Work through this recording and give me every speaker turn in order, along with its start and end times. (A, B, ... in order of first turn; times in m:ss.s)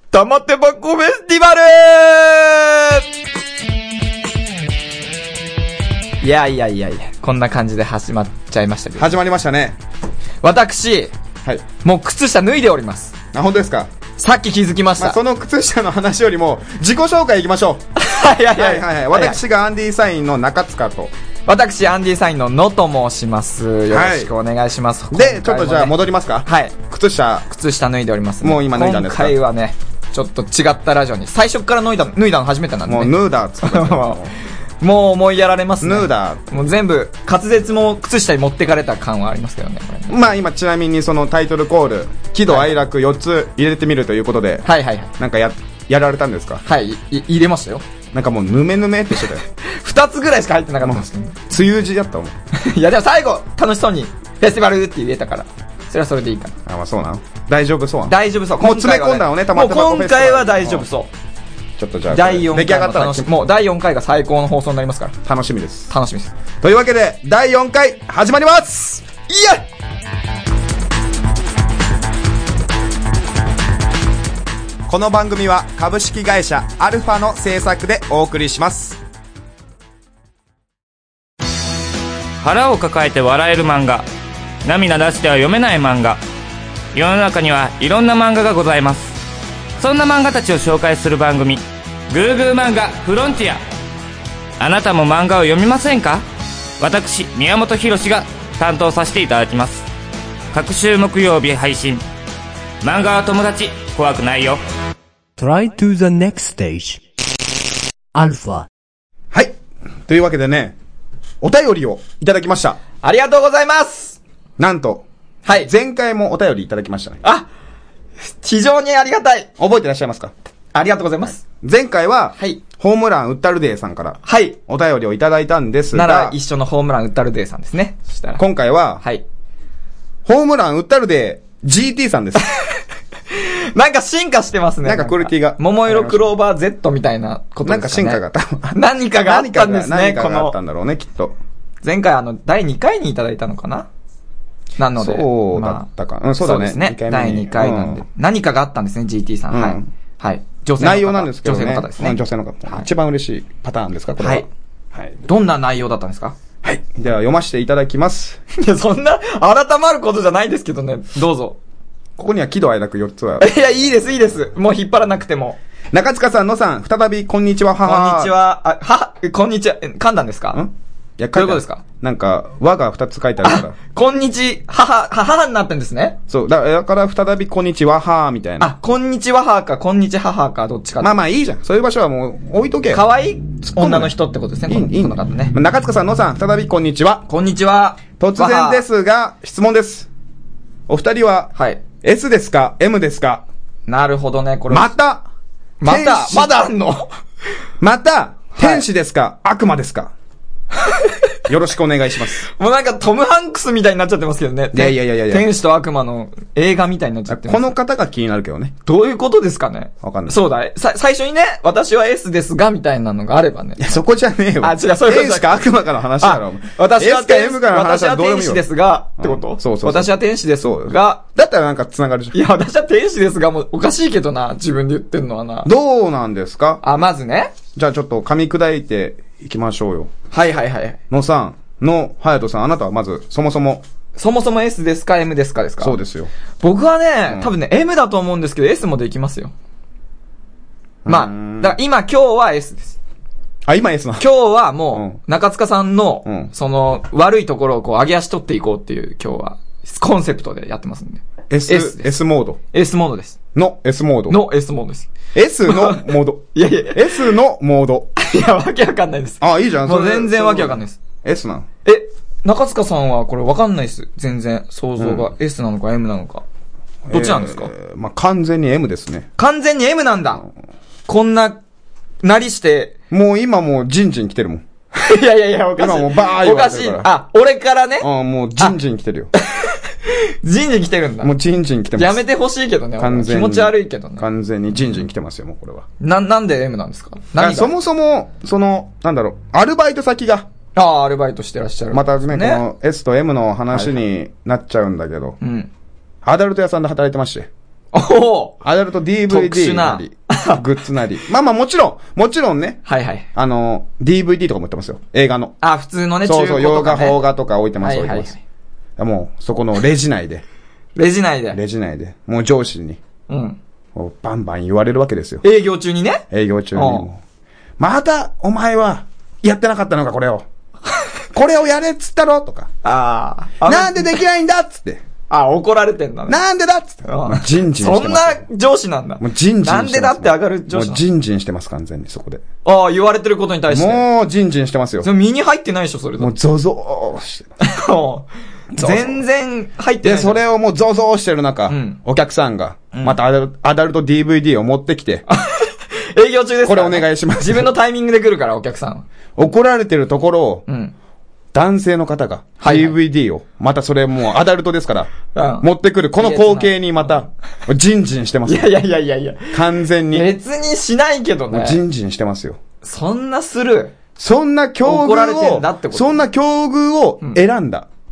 0:00.1-0:03.0 A
0:06.2-0:09.2 A
0:09.0-0:09.8 B
0:10.4-0:11.1 A
0:11.8-0:13.2 A
0:13.3-0:13.9 B
0:14.2-0:15.2 A
0:15.0-0:17.8 B
0:18.0-0:19.4 A
0:18.5-0:21.1 B
0:21.5-0:26.8 A
0:23.9-0:24.3 B
0:25.1-0:27.5 B
0:27.5-0:34.2 A
0:28.4-0:29.4 B
0:32.9-0:34.3 B
0:34.8-0:40.2 A
0:35.8-0:36.4 B
0:40.1-0:46.6 B
0:44.6-0:45.1 A
0:46.6-0:47.8 A
0:48.1-0:49.4 B
0:49.6-0:51.4 A
0:50.8-0:52.3 B
0:52.5-0:56.6 A
0:56.7-1:00.9 B
0:58.1-1:01.1 A
1:01.8-1:03.3 B
1:02.1-1:05.1 A
1:05.2-1:05.9 B
1:05.9-1:06.3 A
1:06.6-1:09.0 B
1:09.3-1:09.6 A
1:14.9-1:19.0 B
1:22.4-1:24.0 C
1:24.6-1:26.2 C
1:26.9-1:29.2 C
1:29.8-1:33.6 C
1:34.6-1:36.2 C
1:36.8-1:39.8 C
1:40.5-1:42.0 C
1:42.8-1:44.6 C
1:45.4-1:47.0 D
1:48.1-1:48.7 D
1:50.1-1:50.8 B
1:51.4-1:52.8 B
1:53.0-1:54.2 A
1:54.6-1:57.2 B
1:55.4-1:55.7 A
1:58.2-1:59.5 A
1:59.6-2:00.3 B
2:00.7-2:01.4 A
2:01.4-2:06.4 B
2:04.2-2:04.6 A
2:05.9-2:08.4 A
2:08.4-2:09.0 B
2:10.2-2:12.5 B
2:13.3-2:20.6 A
2:14.8-2:16.3 B
2:17.6-2:21.4 B
2:21.8-2:23.9 A
2:24.8-2:25.9 A
2:25.0-2:28.0 B
2:26.4-2:32.9 A
2:29.5-2:29.9 B
2:30.8-2:35.2 B
2:34.2-2:34.5 A
2:35.3-2:36.4 A
2:36.6-2:38.4 B
2:38.5-2:41.6 A
2:42.2-2:43.5 B
2:43.4-2:45.6 A
2:45.9-2:48.4 B
2:47.8-2:50.6 A
2:50.5-2:53.8 B
2:51.3-2:51.8 A
2:53.4-2:56.2 A
2:56.3-2:58.7 B
2:58.6-3:01.1 A
3:01.0-3:03.1 B
3:02.9-3:05.6 A
3:03.6-3:07.2 B
3:07.3-3:08.8 A
3:08.2-3:10.1 B
3:10.9-3:13.4 B
3:11.6-3:11.8 A
3:13.9-3:14.9 A
3:14.7-3:15.3 B
3:15.8-3:17.1 A
3:15.8-3:16.6 B
3:17.8-3:20.1 B
3:18.6-3:18.8 A
3:20.8-3:21.1 A
3:21.5-3:22.5 B
3:22.5-3:27.7 A
3:24.7-3:25.5 B
3:27.3-3:28.7 B
3:28.8-3:34.0 A
3:30.0-3:30.4 B
3:33.8-3:38.7 B
3:34.6-3:35.6 A
3:36.2-3:41.2 A
3:39.2-3:42.4 B
3:42.3-3:45.7 A
3:45.6-3:46.8 B
3:46.8-3:47.6 A
3:47.8-3:50.1 B
3:50.3-3:51.0 A
3:51.1-3:53.8 B
3:54.2-3:56.0 A
3:55.8-3:56.3 B
3:56.6-3:59.5 A
4:01.0-4:01.8 B
4:01.1-4:03.0 A
4:03.7-4:04.3 B
4:04.2-4:12.1 A
4:04.9-4:05.2 B
4:06.2-4:06.5 B
4:11.5-4:12.6 B
4:12.7-4:13.4 A
4:13.6-4:14.4 B
4:14.3-4:15.1 A
4:15.3-4:18.1 B
4:15.7-4:17.3 A
4:18.2-4:21.0 A
4:19.4-4:21.7 B
4:21.8-4:26.4 A
4:25.0-4:25.3 B
4:27.1-4:29.3 B
4:27.1-4:27.7 A
4:29.4-4:30.4 A
4:31.1-4:31.6 A
4:32.2-4:32.9 A
4:33.1-4:34.6 B
4:35.0-4:38.8 A
4:35.8-4:37.1 B
4:38.0-4:39.3 B
4:39.4-4:41.3 A
4:41.2-4:42.2 B
4:42.0-4:44.3 A
4:43.0-4:45.9 B
4:46.0-4:47.7 A
4:47.4-4:50.5 B
4:50.8-4:52.6 A
4:51.9-4:55.4 B
4:55.4-4:55.7 A
4:56.2-4:57.5 B
4:57.9-4:58.6 A
4:58.6-5:02.8 B
4:59.3-5:00.6 A
5:02.9-5:03.3 A
5:03.3-5:05.6 B
5:05.6-5:07.2 A
5:06.2-5:08.3 B
5:07.8-5:08.4 A
5:09.0-5:10.4 B
5:11.0-5:11.6 A
5:11.5-5:13.0 B
5:13.3-5:13.6 A
5:14.0-5:15.4 B
5:15.4-5:17.1 A
5:16.3-5:17.2 B
5:17.8-5:20.5 B
5:21.3-5:22.7 B
5:22.8-5:24.2 A
5:23.6-5:25.0 B
5:25.3-5:26.4 A
5:26.3-5:28.4 B
5:27.0-5:31.0 A
5:29.2-5:32.4 B
5:32.6-5:34.1 A
5:33.7-5:35.1 B
5:35.0-5:36.3 A
5:36.2-5:37.5 B
5:37.6-5:40.4 A
5:38.7-5:39.2 B
5:40.0-5:45.2 B
5:41.7-5:42.0 A
5:42.9-5:43.2 A
5:45.3-5:49.1 A
5:46.6-5:47.7 B
5:49.4-5:50.7 B
5:50.7-5:50.9 A
5:51.5-5:58.8 B
5:52.6-5:53.0 A
5:55.3-5:57.1 A
5:58.5-6:01.8 A
5:59.5-6:00.3 B
6:01.5-6:02.6 B
6:02.8-6:03.9 A
6:04.2-6:07.9 B
6:04.8-6:06.3 A